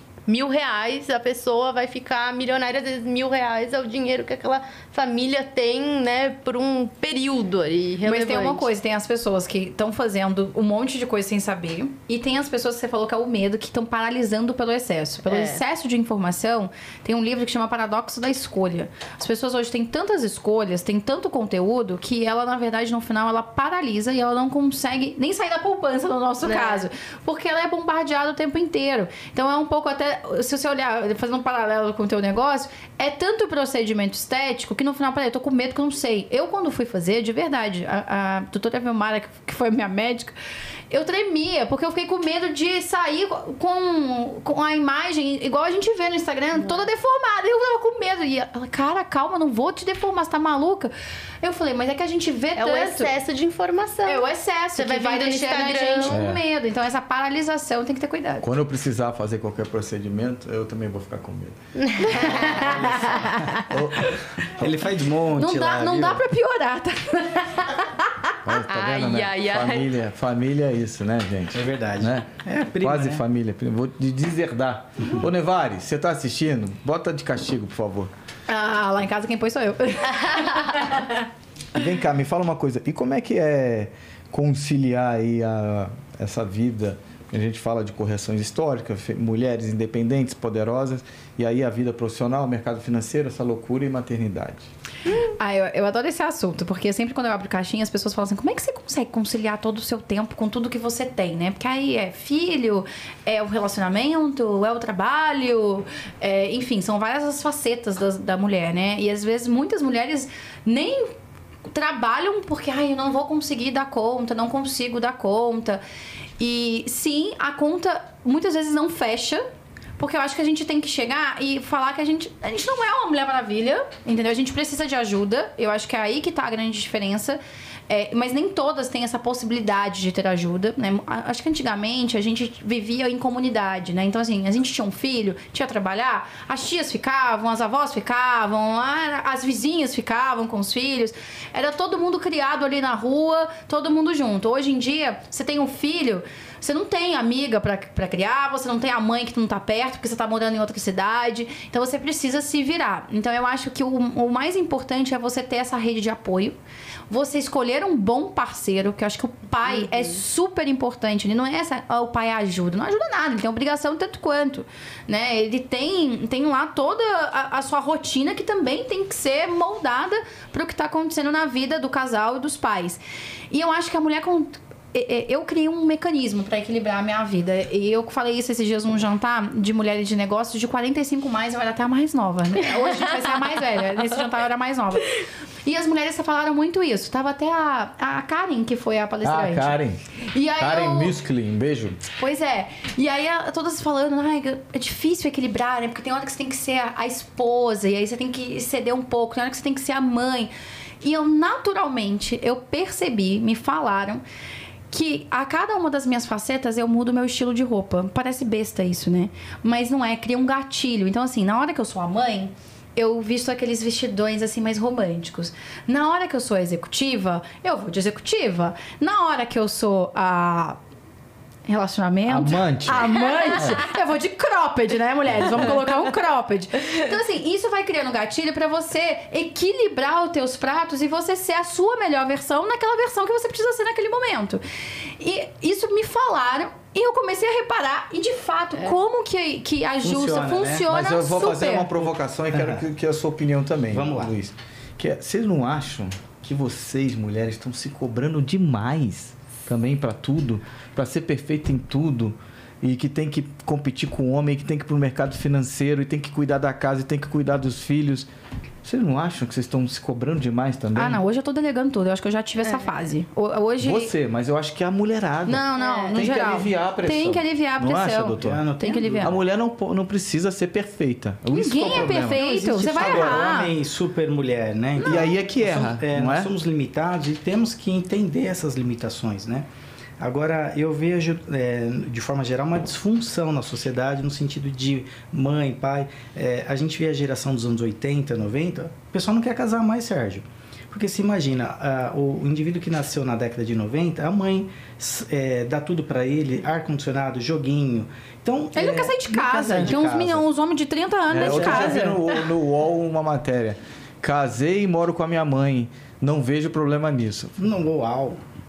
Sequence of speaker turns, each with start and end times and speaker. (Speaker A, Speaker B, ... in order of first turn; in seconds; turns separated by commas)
Speaker A: 0.3-8.7, Speaker B: 8.0-40.3, Speaker A: 15.3-15.6, Speaker A: 26.4-26.8, Speaker B: 40.9-53.1, Speaker A: 52.6-56.2, Speaker B: 54.1-58.5, Speaker C: 56.1-56.4, Speaker C: 58.4-61.6, Speaker A: 61.8-62.8, Speaker B: 62.0-63.7, Speaker C: 62.1-63.1, Speaker D: 62.1-63.5, Speaker C: 63.6-64.9, Speaker D: 64.6-66.2, Speaker B: 65.3-67.8, Speaker C: 68.4-72.3, Speaker A: 68.7-69.9, Speaker D: 71.5-73.2, Speaker C: 72.8-78.1, Speaker B: 78.5-81.1, Speaker C: 81.7-94.7, Speaker B: 95.4-111.1, Speaker B: 111.7-115.8, Speaker B: 116.4-119.4, Speaker B: 120.0-156.6, Speaker B: 157.1-173.0, Speaker B: 173.5-191.1, Speaker C: 189.2-190.0, Speaker C: 190.6-192.0, Speaker B: 192.2-200.5, Speaker B: 201.0-204.2, Speaker B: 204.9-220.8, Speaker B: 221.7-234.6, Speaker C: 222.2-223.8, Speaker B: 235.2-241.9, Speaker D: 240.0-240.8, Speaker C: 240.9-258.3, Speaker D: 242.5-242.8, Speaker D: 243.9-244.3, Speaker C: 258.8-261.2, Speaker B: 260.9-264.1, Speaker C: 263.8-268.6, Speaker B: 265.5-269.4, Speaker A: 265.8-266.1, Speaker D: 268.4-269.3, Speaker C: 269.2-273.5, Speaker B: 271.5-273.7, Speaker D: 271.9-279.7, Speaker B: 275.0-275.3, Speaker C: 275.0-276.5, Speaker D: 280.2-300.4, Speaker B: 298.7-302.2, Speaker C: 301.3-307.7, Speaker D: 301.4-302.0, Speaker D: 307.6-308.4